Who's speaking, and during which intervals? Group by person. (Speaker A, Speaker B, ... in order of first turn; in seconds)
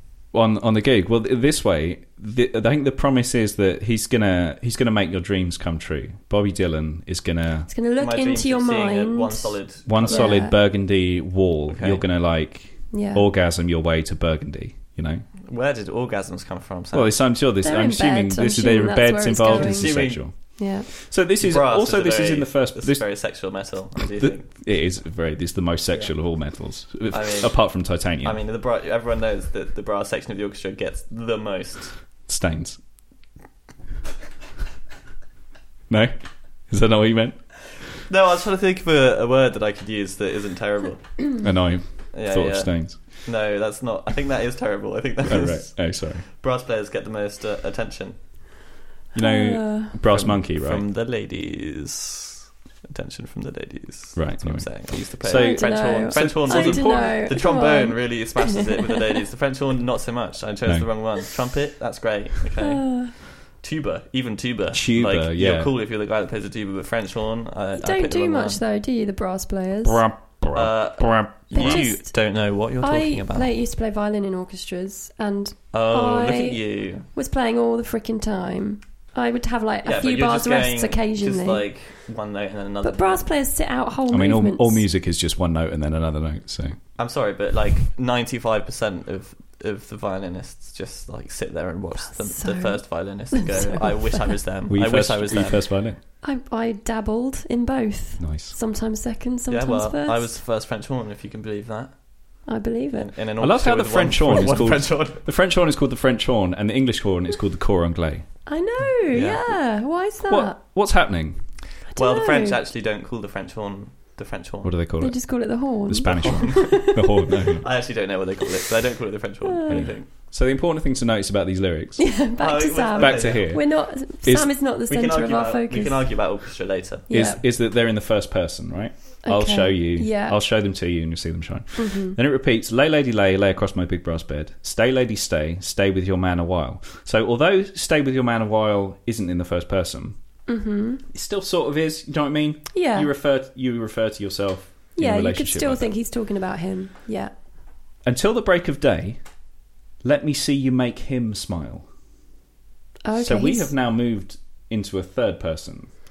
Speaker A: 0.3-7.7, 9.9-15.3, 16.9-23.0, 24.1-28.4, 32.3-32.8, 35.9-37.4, 41.4-43.0, 45.2-46.2, 49.1-50.8, 54.1-57.2, 60.6-60.9, 64.7-65.7, 69.8-71.9, 84.1-86.8, 94.7-96.0, 98.2-98.5, 103.4-108.3, 110.3-111.5, 114.6-117.7, 119.7-122.2, 123.0-124.5, 127.1-140.2, 141.1-145.9, 148.0-149.2, 150.0-151.9, 153.2-155.9
Speaker B: 7.7-10.5, 12.9-13.2, 17.6-20.9, 49.2-49.9, 55.3-59.0, 62.6-63.1, 67.7-70.0, 71.5-72.2, 72.8-81.6, 82.8-84.8, 92.1-94.4, 96.2-100.4, 102.4-103.1, 108.5-110.6, 111.9-112.6, 115.0-117.3, 119.4-119.9, 122.0-126.4, 127.1-127.4, 129.2-130.4, 131.8-132.2, 140.5-141.0, 142.7-143.1, 144.9-147.3, 153.0-153.7
Speaker C: 8.0-10.4, 11.7-12.0, 15.4-17.1, 19.5-20.2, 21.4-24.6, 27.1-31.9, 38.1-41.2, 42.1-48.2, 50.0-68.6, 70.5-73.5, 75.7-77.1, 79.8-83.3, 87.0-95.7, 99.5-105.2, 109.1-109.4, 111.9-114.7, 116.0-120.1, 122.4-123.5, 124.9-127.1